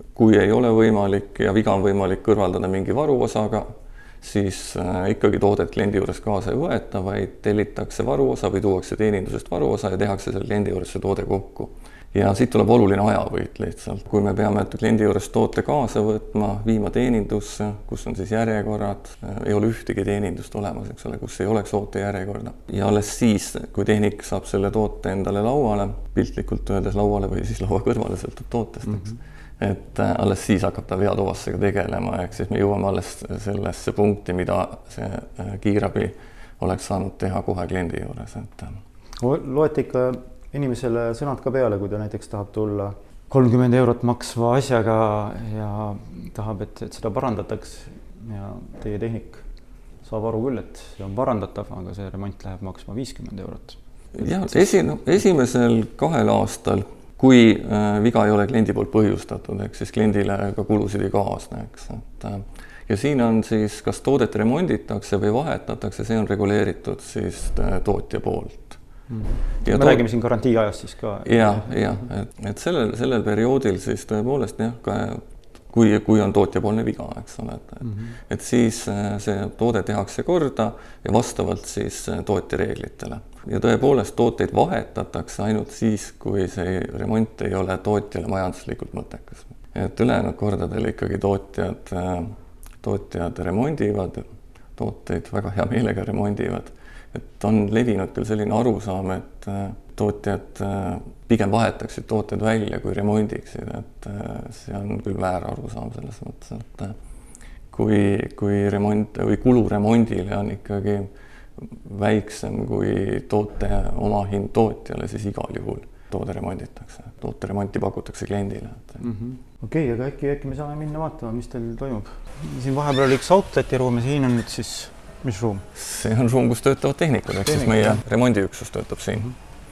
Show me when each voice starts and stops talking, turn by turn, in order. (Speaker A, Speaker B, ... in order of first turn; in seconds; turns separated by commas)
Speaker A: 0.1-3.7, Speaker A: 4.2-38.8, Speaker B: 39.2-49.4, Speaker B: 50.0-54.5, Speaker A: 54.1-68.8, Speaker B: 69.1-71.7, Speaker A: 69.6-70.0, Speaker A: 71.2-94.2, Speaker B: 77.8-78.1, Speaker A: 94.8-106.9, Speaker A: 107.7-119.0, Speaker B: 119.0-125.7, Speaker A: 125.7-129.3, Speaker B: 127.4-128.0